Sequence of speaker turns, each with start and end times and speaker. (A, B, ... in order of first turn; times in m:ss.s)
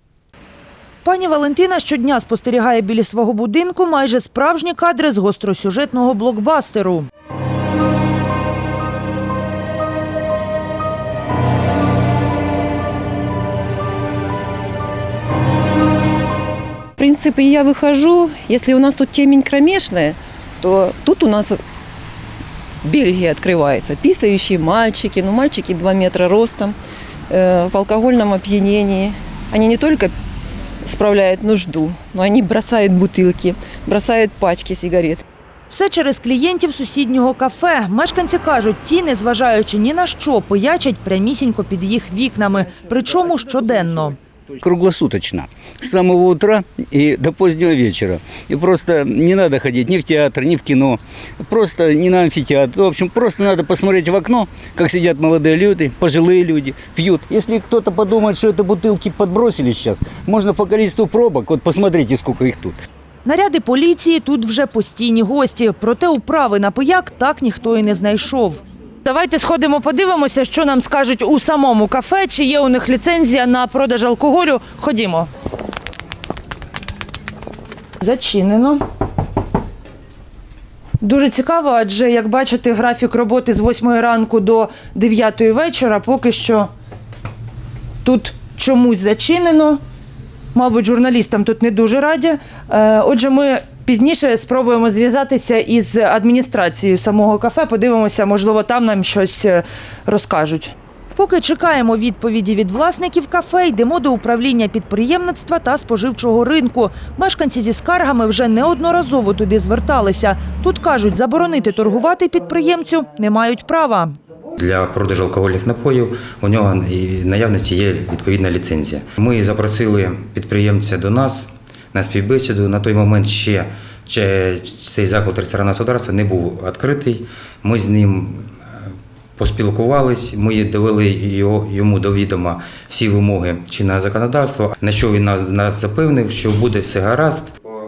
0:01.0-0:07.1 A
0:17.0-0:21.6 B
0:22.8-0:26.8 B
0:27.3-0:30.1 B
0:30.8-0:35.2 B
0:35.7-0:44.2 A
0:44.5-1:02.8 C
1:03.2-1:15.3 A
1:18.0-1:18.8 A
1:21.0-1:26.7 A
1:28.0-1:29.8 A
1:30.5-1:54.2 A
1:54.6-2:08.5 D
2:09.4-2:17.5 D